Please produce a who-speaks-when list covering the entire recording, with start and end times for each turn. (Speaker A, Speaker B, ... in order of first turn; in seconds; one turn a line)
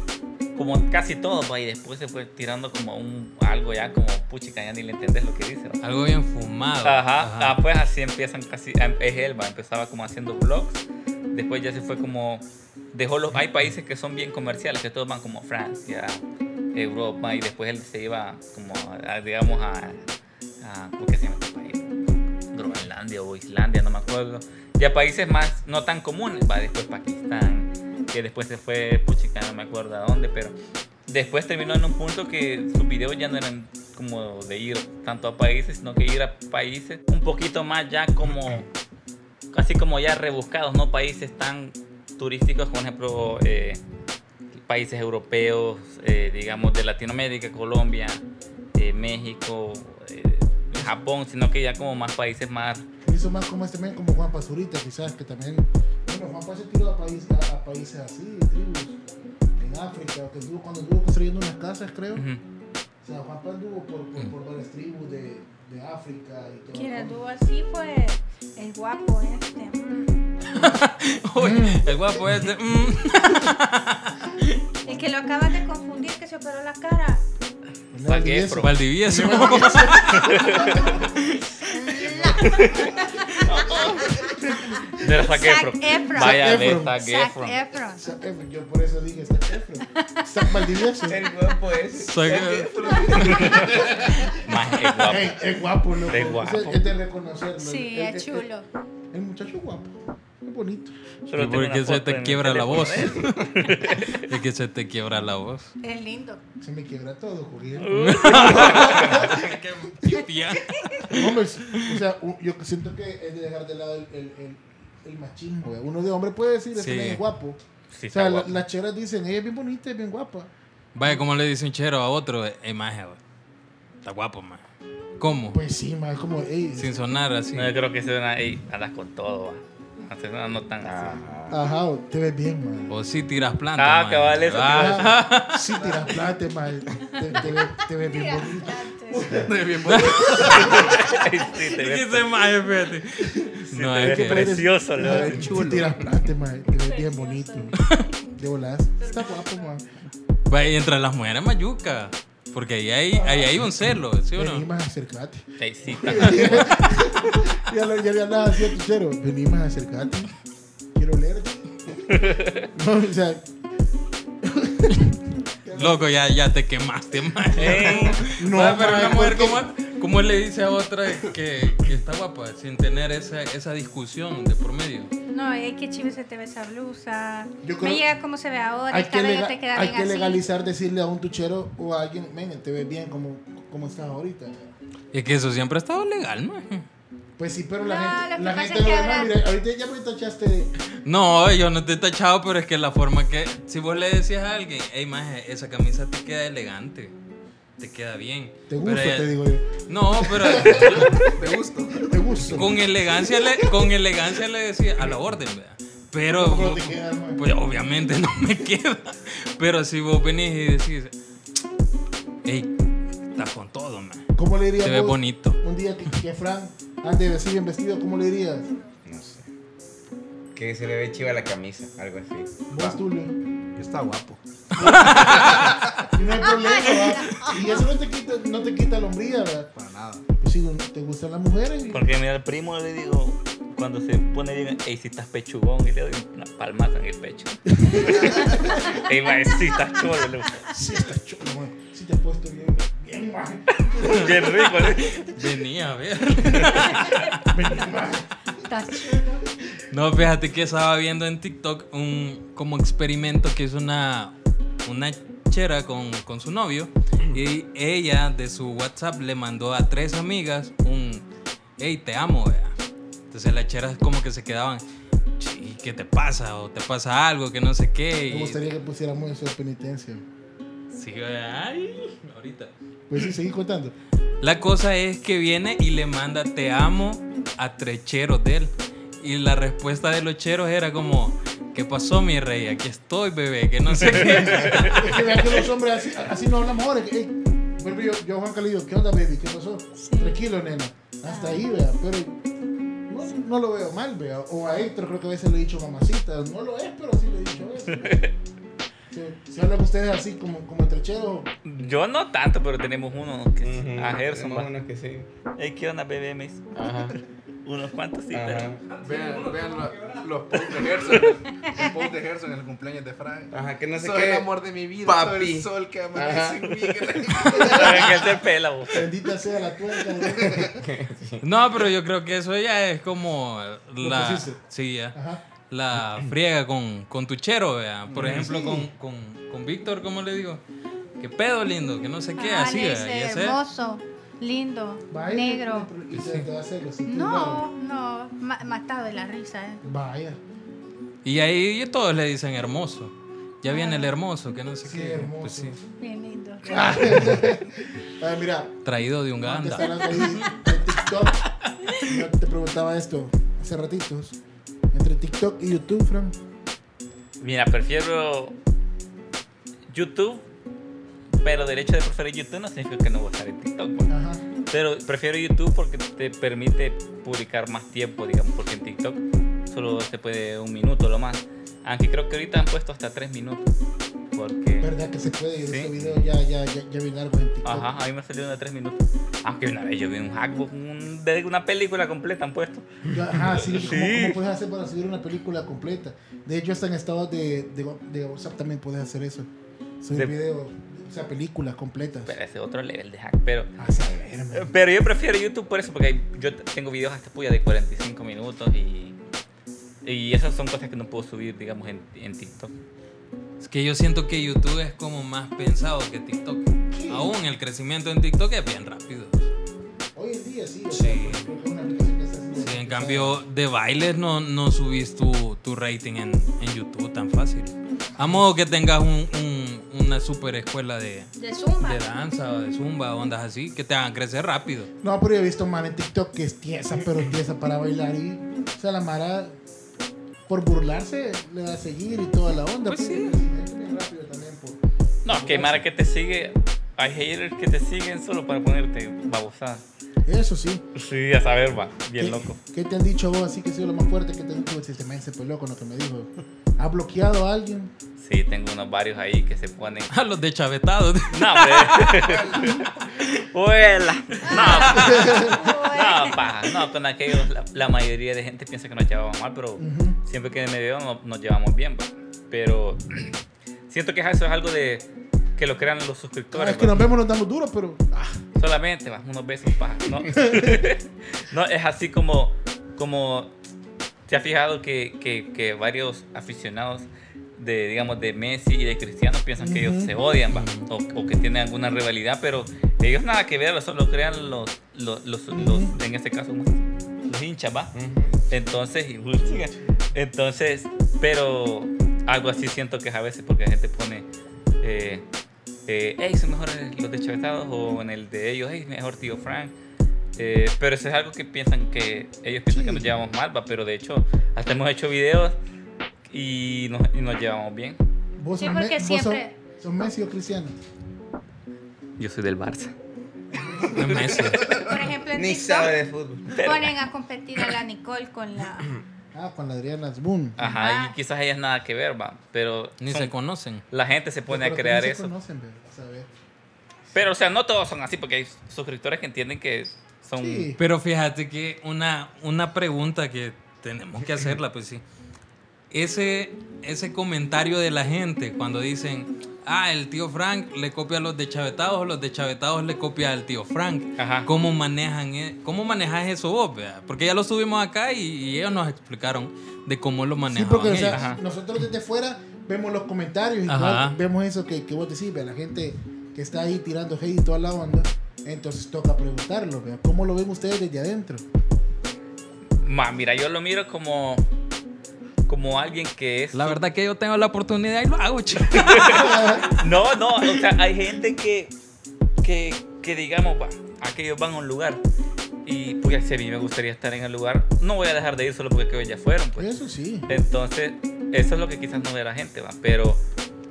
Speaker A: 0.5-5.8
Speaker B: 5.8-7.6
Speaker A: 6.8-16.2
Speaker A: 16.7-20.0
Speaker A: 20.6-30.5
Speaker A: 31.1-38.7
Speaker A: 39.5-43.8
Speaker A: 44.6-48.2
Speaker A: 48.7-52.8
Speaker C: 53.0-59.0
Speaker C: 59.6-62.2
Speaker A: 62.1-62.4
Speaker C: 63.0-67.2
Speaker D: 66.7-70.2
Speaker B: 70.5-74.6
Speaker C: 70.5-70.8
Speaker C: 71.3-73.3
Speaker D: 74.8-77.2
Speaker C: 77.9-81.1
Speaker A: 78.0-78.7
Speaker B: 78.6-81.7
Speaker A: 80.1-81.0
Speaker D: 81.7-84.3
Speaker C: 81.9-82.8
Speaker A: 82.4-82.9
Speaker C: 83.4-85.2
Speaker A: 83.4-84.1
Speaker A: 85.0-87.6
Speaker D: 85.2-88.1
Speaker C: 86.1-87.0
Speaker C: 88.0-91.2
Speaker D: 89.8-91.0
Speaker E: 91.0-93.8
Speaker B: 92.0-93.6
Speaker F: 92.3-94.3
Speaker A: 93.3-93.7
Speaker A: 94.3-95.5
Speaker C: 95.0-98.5
Speaker A: 96.0-96.8
Speaker D: 97.6-98.7
Speaker C: 99.1-101.0
Speaker A: 101.3-104.2
Speaker B: 101.3-105.7
Speaker D: 105.8-106.4
Speaker C: 106.6-110.3
Speaker A: 107.8-109.4
Speaker B: 107.9-112.0
Speaker D: 110.8-111.0
Speaker C: 111.0-120.5
Speaker B: 116.7-117.2
Speaker A: 117.9-118.6
Speaker B: 120.9-123.2
Speaker B: 124.0-124.6
Speaker B: 125.2-125.6
Speaker C: 125.5-126.9
Speaker B: 126.8-127.7
Speaker A: 127.5-131.2
Speaker E: 130.8-131.6
Speaker C: 131.5-132.9
Speaker B: 132.9-135.7
Speaker A: 133.8-135.2
Speaker C: 134.6-140.9
Speaker F: 135.7-136.2
Speaker D: 137.4-139.4
Speaker F: 139.3-140.9
Speaker B: 139.8-140.7
Speaker A: 140.5-142.2
Speaker B: 141.6-145.2
Speaker A: 143.7-145.6
Speaker C: 144.0-147.8
Speaker F: 145.0-145.9
Speaker D: 146.7-148.2
Speaker B: 147.8-148.0
Speaker C: 148.3-149.9
Speaker D: 149.0-149.7
Speaker B: 150.5-154.7
Speaker C: 153.1-160.3
Speaker A: 155.6-156.9
Speaker B: 156.2-156.7
Speaker C: 160.9-163.5
Speaker A: 162.1-162.7
Speaker C: 164.4-166.1
Speaker B: 165.7-175.1
Speaker A: 167.5-168.2
Speaker C: 167.6-169.7
Speaker D: 175.3-180.4
Speaker C: 177.6-178.0
Speaker C: 178.9-184.7
Speaker B: 185.1-186.8
Speaker C: 187.4-190.7
Speaker D: 187.8-189.3
Speaker B: 191.0-197.1
Speaker B: 197.8-199.3
Speaker C: 198.7-201.2
Speaker B: 199.9-201.3
Speaker F: 200.8-202.1
Speaker C: 202.0-202.8
Speaker B: 202.5-211.1
Speaker C: 206.3-207.4
Speaker B: 212.4-212.7
Speaker B: 213.3-214.3
Speaker C: 214.3-218.7
Speaker B: 214.8-215.6
Speaker E: 219.0-219.4
Speaker E: 220.5-223.0
Speaker C: 222.7-223.3
Speaker F: 223.8-224.4
Speaker B: 224.8-225.7
Speaker C: 224.8-225.5
Speaker F: 224.9-226.0
Speaker C: 226.1-229.7
Speaker D: 226.3-227.7
Speaker F: 229.7-230.2
Speaker C: 230.4-232.1
Speaker A: 231.9-240.7
Speaker C: 237.7-238.9
Speaker C: 240.7-244.4
Speaker A: 243.8-245.3
Speaker B: 244.8-247.4
Speaker C: 247.4-248.3
Speaker D: 248.6-249.4
Speaker C: 248.9-249.2
Speaker B: 249.9-254.3
Speaker B: 254.8-261.2
Speaker B: 261.8-262.7
Speaker B: 263.3-264.8
Speaker B: 265.4-268.6
Speaker C: 268.3-270.2
Speaker B: 270.9-272.7
Speaker C: 273.1-273.9
Speaker B: 274.4-285.5
Speaker A: 284.1-284.9
Speaker C: 284.1-292.4
Speaker D: 290.0-290.4
Speaker D: 291.2-291.6
Speaker C: 293.1-298.3
Speaker A: 297.9-298.3
Speaker C: 299.1-301.5
Speaker A: 301.6-304.7
Speaker E: 303.6-305.3
Speaker A: 305.6-306.6
Speaker E: 306.7-307.1
Speaker A: 307.6-308.7
Speaker E: 308.3-308.8
Speaker F: 309.0-318.4
Speaker E: 313.5-314.5
Speaker E: 315.0-317.5
Speaker C: 317.6-317.9
Speaker A: 317.7-319.0
Speaker C: 318.9-320.8
Speaker E: 320.6-321.4
Speaker B: 321.4-325.1
Speaker C: 324.0-324.6
Speaker C: 325.1-325.4
Speaker B: 325.7-330.6
Speaker F: 328.1-328.5
Speaker C: 328.1-328.9
Speaker B: 331.2-333.6
Speaker D: 332.4-335.9
Speaker C: 335.1-337.6
Speaker B: 336.1-336.5
Speaker D: 337.1-339.9
Speaker C: 339.8-340.4
Speaker B: 341.2-345.8
Speaker D: 343.6-344.1
Speaker C: 344.8-345.8
Speaker D: 346.0-347.2
Speaker C: 346.6-348.8
Speaker B: 348.8-352.0
Speaker C: 349.4-351.5
Speaker C: 352.0-354.4
Speaker C: 354.9-356.4
Speaker A: 357.4-358.6
Speaker A: 359.9-360.4
Speaker A: 361.4-364.1
Speaker C: 364.1-364.4
Speaker A: 364.7-373.7
Speaker A: 374.3-374.9
Speaker C: 374.8-377.9
Speaker A: 375.6-375.9
Speaker A: 377.6-384.4
Speaker C: 383.1-389.5
Speaker C: 390.0-392.4
Speaker A: 392.3-393.7
Speaker C: 393.8-394.7
Speaker A: 394.5-399.1
Speaker A: 400.0-402.7
Speaker B: 403.6-409.5
Speaker C: 406.9-407.4
Speaker C: 410.1-413.4
Speaker B: 410.9-411.5
Speaker B: 412.6-424.9
Speaker C: 418.1-418.5
Speaker D: 421.4-422.0
Speaker C: 425.0-429.6
Speaker C: 430.5-435.9
Speaker B: 432.9-433.4
Speaker A: 435.2-439.8
Speaker C: 440.2-440.8
Speaker A: 440.9-442.6
Speaker C: 442.1-447.9
Speaker A: 448.2-450.1
Speaker B: 450.1-452.8
Speaker A: 451.3-463.3
Speaker D: 454.4-456.5
Speaker B: 454.6-455.1
Speaker C: 454.9-455.6
Speaker C: 459.8-460.2
Speaker A: 463.9-465.1
Speaker A: 465.6-467.0
Speaker C: 466.5-468.4
Speaker A: 468.6-473.5
Speaker C: 470.2-470.9
Speaker A: 474.3-487.9
Speaker C: 479.6-480.1
Speaker B: 480.5-480.9
Speaker C: 485.5-485.9
Speaker E: 487.9-488.4
Speaker A: 488.5-494.2
Speaker A: 494.8-495.2
Speaker A: 495.9-499.7
Speaker A: 500.4-505.6
Speaker C: 502.7-503.1
Speaker A: 506.2-508.0
Speaker C: 508.4-510.7
Speaker D: 508.6-509.5
Speaker A: 512.2-512.9
Speaker C: 513.5-514.3
Speaker B: 513.9-514.7
Speaker A: 513.9-514.6
Speaker D: 514.6-515.9
Speaker E: 515.3-516.6
Speaker A: 516.5-517.0
Speaker D: 516.5-518.9
Speaker C: 519.3-520.6
Speaker A: 520.6-523.3
Speaker D: 520.6-521.1
Speaker B: 523.0-523.8
Speaker A: 523.9-525.3
Speaker C: 524.5-526.3
Speaker A: 527.1-530.7
Speaker C: 530.4-530.8
Speaker B: 530.8-535.0
Speaker B: 535.9-551.3
Speaker A: 544.2-544.5
Speaker C: 550.5-561.4
Speaker A: 551.1-551.4
Speaker B: 553.7-554.2
Speaker A: 562.8-564.4
Speaker A: 565.5-566.8
Speaker B: 566.5-569.4
Speaker A: 568.5-571.7
Speaker C: 569.0-569.7
Speaker A: 572.4-575.0
Speaker A: 575.6-579.7
Speaker C: 579.5-580.3
Speaker A: 580.3-583.2